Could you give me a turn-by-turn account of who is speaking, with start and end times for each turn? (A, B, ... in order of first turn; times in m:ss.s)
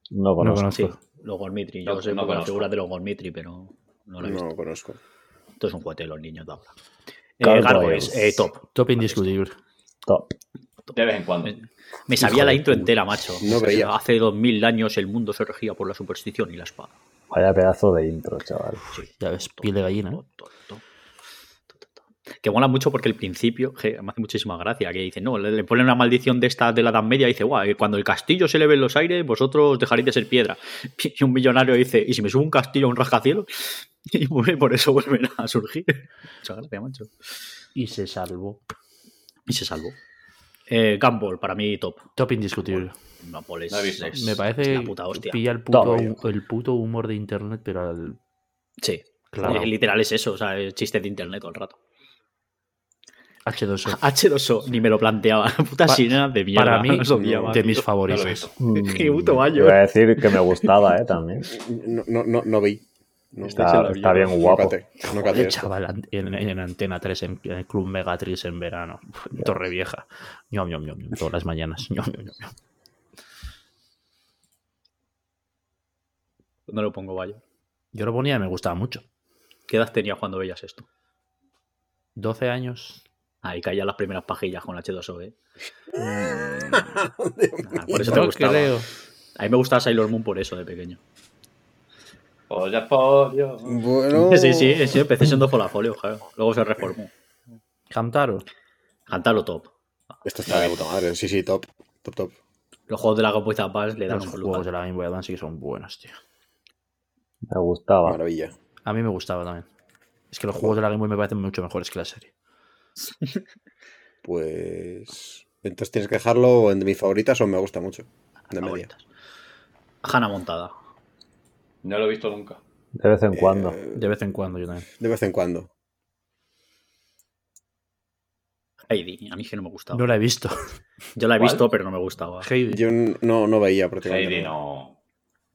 0:00.1-0:00.9 A
0:00.4-0:01.0 B
0:00.7-0:04.5 C
0:01.9-0:02.7 D
0:04.2-0:05.0 E
0:05.6-0:06.7 C
0:07.4-0:09.3 C
0:07.4-0:08.5 A
0:08.7-0:09.6 B
0:10.1-0:10.4 A
0:10.9-0:11.6 D
0:11.5-0:17.0 C
0:12.2-0:12.9 A
0:13.4-0:13.9 E
0:17.3-0:18.8 A
0:18.9-0:20.8 C
0:19.2-0:20.2 B
0:21.7-0:37.1 C
0:37.8-0:38.6 B
0:39.5-0:40.0 C
0:40.7-0:42.1 C
0:42.2-0:43.0 B
0:42.6-0:45.4 C
0:43.7-0:44.2 D
0:44.1-0:48.2 B
0:45.7-0:46.2 A
0:48.8-0:51.8 C
0:49.3-0:49.7 B
0:53.5-0:54.0 B
0:53.9-0:57.9 C
0:55.9-0:58.5 B
0:57.1-0:57.7 E
0:58.1-0:58.5 D
0:58.6-1:01.5 A
0:58.7-1:00.5 C
1:01.5-1:02.8 E
1:03.3-1:05.7 E
1:03.4-1:04.4 C
1:03.6-1:04.8 A
1:05.2-1:12.5 B
1:16.7-1:17.4 C
1:17.9-1:19.0 B
1:19.7-1:20.9 C
1:22.2-1:23.0 B
1:23.4-1:25.3 C
1:26.0-1:28.4 E
1:27.7-1:28.8 C
1:28.0-1:28.9 B
1:29.4-1:31.0 C
1:32.5-1:33.8 D
1:33.6-1:35.0 E
1:34.1-1:37.1 C
1:37.9-1:38.5 B
1:39.1-1:39.7 C
1:40.2-1:42.3 E
1:40.5-1:40.8 D
1:42.9-1:44.7 C
1:44.1-1:46.2 B
1:47.5-1:48.2 A
1:48.1-1:48.6 E
1:48.8-1:49.7 B
1:50.3-1:52.3 B
1:53.1-1:53.4 C
1:54.2-1:58.9 E
1:58.5-1:59.0 C
2:00.0-2:00.7 C
2:01.8-2:02.6 D
2:03.0-2:03.8 A
2:03.3-2:04.1 E
2:03.9-2:04.9 B
2:04.9-2:05.7 E
2:08.9-2:10.1 C
2:09.9-2:10.6 B
2:11.2-2:12.5 C
2:11.4-2:11.6 D
2:12.4-2:12.8 B
2:12.7-2:14.6 E
2:14.0-2:15.0 D